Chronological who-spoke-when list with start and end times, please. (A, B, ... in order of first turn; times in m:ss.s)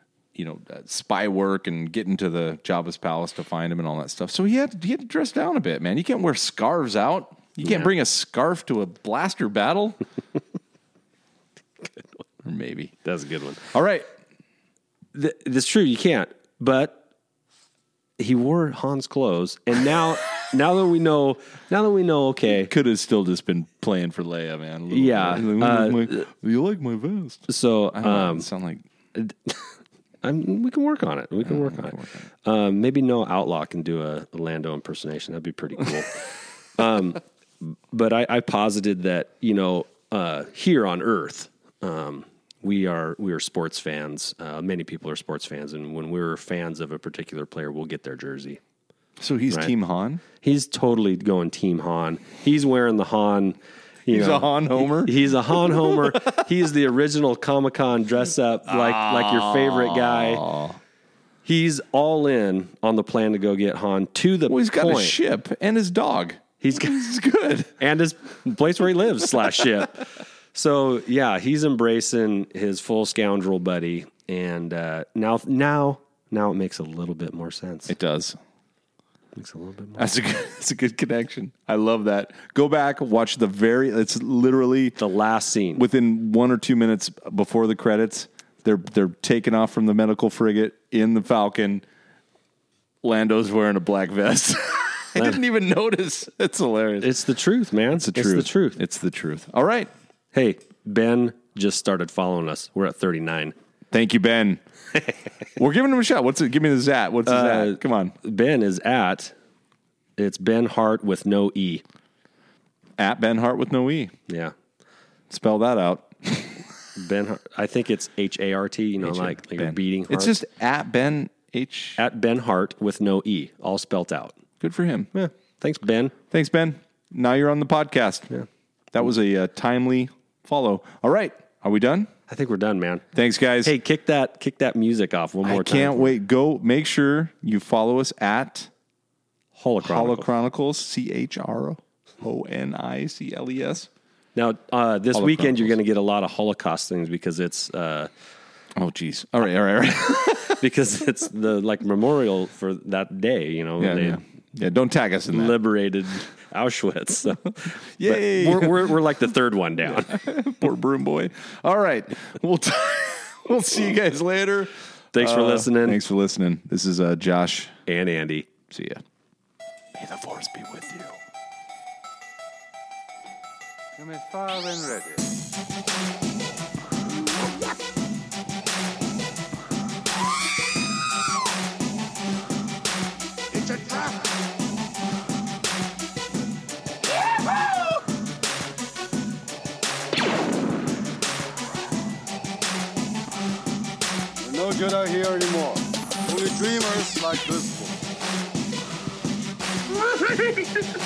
0:00.4-0:10.0 A
0:12.4-0:12.9 A
0:13.0-0:13.7 B
0:13.7-0:14.1 A
0:15.2-0:17.0 B
0:18.2-0:22.7 B
0:22.6-0:28.9 A
0:24.9-0:26.3 B
0:27.5-0:28.5 B
0:29.2-0:29.6 B
0:30.2-0:48.6 B
0:31.4-0:32.2 A
0:49.2-0:50.2 A
0:50.4-1:00.5 B
0:54.1-0:56.3 A
0:58.7-1:00.8 A
1:01.4-1:05.2 B
1:04.5-1:07.8 A
1:06.6-1:07.1 B
1:07.8-1:17.9 B
1:17.9-1:18.4 A
1:19.4-1:20.0 B
1:20.0-1:25.0 A
1:25.0-1:25.8 B
1:25.8-1:31.8 A
1:33.0-1:37.2 A
1:35.2-1:35.4 B
1:37.0-1:38.8 B
1:37.9-1:39.9 A
1:40.3-1:43.6 B
1:43.9-1:44.6 A
1:45.6-1:48.2 A
1:47.3-1:49.3 B
1:50.2-1:51.8 B
1:53.0-1:54.1 A
1:54.3-1:54.6 B
1:55.3-1:56.6 A
1:57.0-2:00.4 B
1:59.0-2:02.0 A
2:02.0-2:04.4 B
2:04.6-2:05.1 A
2:05.1-2:06.1 B
2:06.3-2:08.3 A
2:08.9-2:12.1 A
2:12.3-2:13.0 B
2:13.1-2:13.7 A
2:13.6-2:16.2 B
2:15.4-2:18.7 A
2:19.6-2:20.4 B
2:19.8-2:23.9 A
2:24.4-2:28.1 B
2:25.1-2:25.8 A
2:28.8-2:30.6 A
2:30.4-2:34.2 B
2:33.8-2:35.6 A
2:35.3-2:40.2 B
2:38.0-2:39.0 A
2:39.9-2:47.8 A
2:45.1-2:46.0 B
2:47.9-2:48.5 B
2:48.7-2:49.0 A
2:50.0-2:51.2 A
2:54.0-2:55.3 C
3:03.5-3:04.3 C
3:14.4-3:18.0 C